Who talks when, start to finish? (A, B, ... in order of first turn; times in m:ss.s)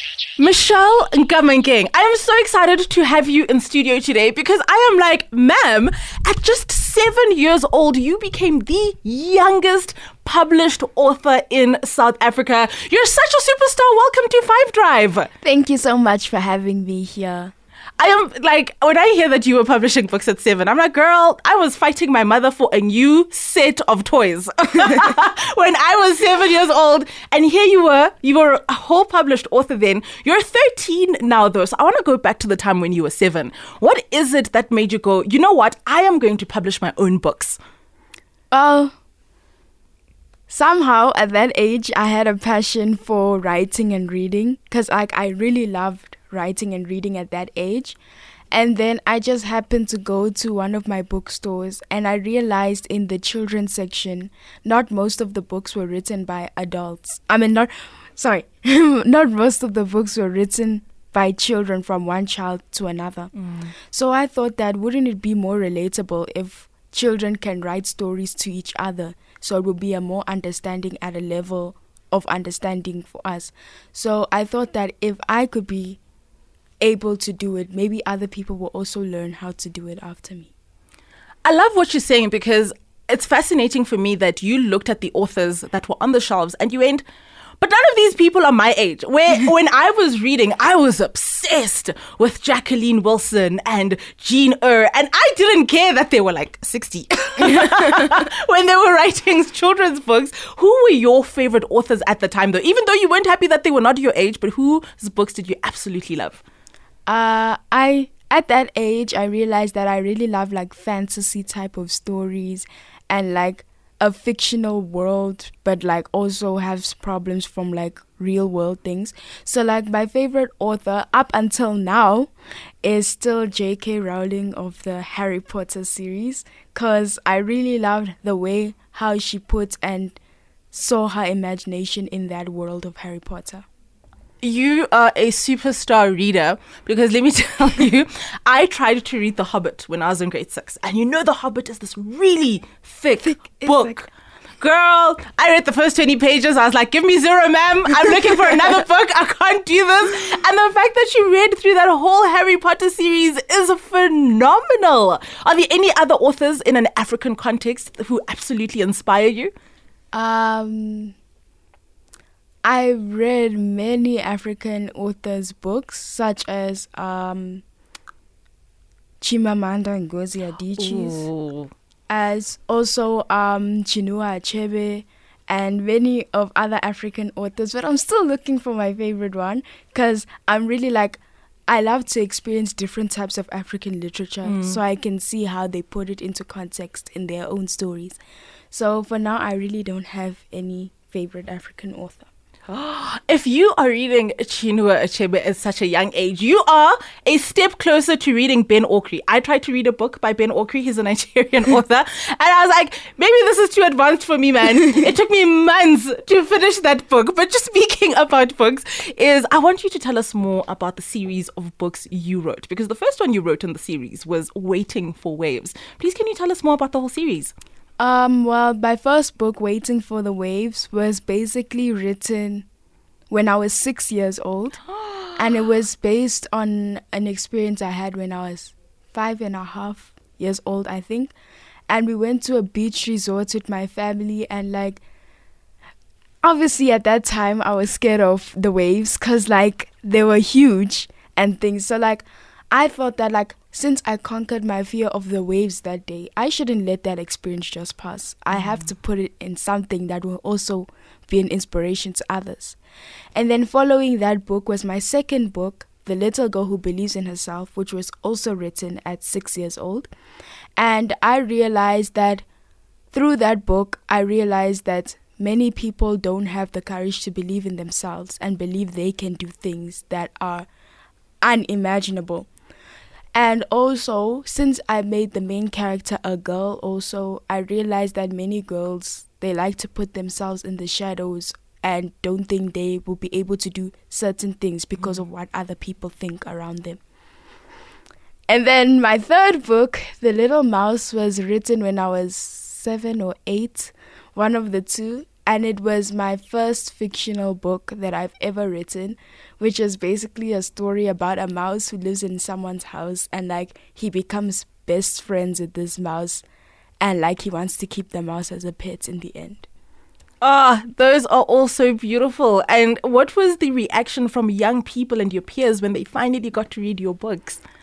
0:00.4-0:15.3 A
0:15.4-0:17.5 B
0:18.0-0:37.6 A
0:38.5-0:38.9 B
0:40.5-0:48.0 B
0:48.5-1:03.3 B
1:03.9-1:16.0 B
1:16.8-1:20.5 B
1:21.4-1:27.0 A
1:27.6-1:46.4 A
1:47.0-2:02.3 B
2:02.8-2:10.2 B
2:10.7-2:13.6 B
2:14.4-2:39.5 A
2:23.3-2:23.9 B
2:40.1-2:41.1 B
2:42.6-2:47.6 B
2:49.2-2:51.3 B
2:50.8-2:51.7 A
2:52.1-3:08.2 B
3:04.4-3:04.8 A
3:08.7-3:12.3 B
3:12.7-3:37.5 A
3:38.0-3:42.6 B
3:43.3-3:44.8 B
3:45.4-3:51.3 B
3:51.9-3:55.0 B
3:56.4-4:12.8 B
4:13.3-4:20.1 B
4:20.8-4:22.4 B
4:23.1-4:30.7 B
4:31.4-4:32.5 B
4:33.3-4:47.0 B
4:48.5-5:06.4 B
5:07.0-5:09.6 B
5:10.4-5:17.6 A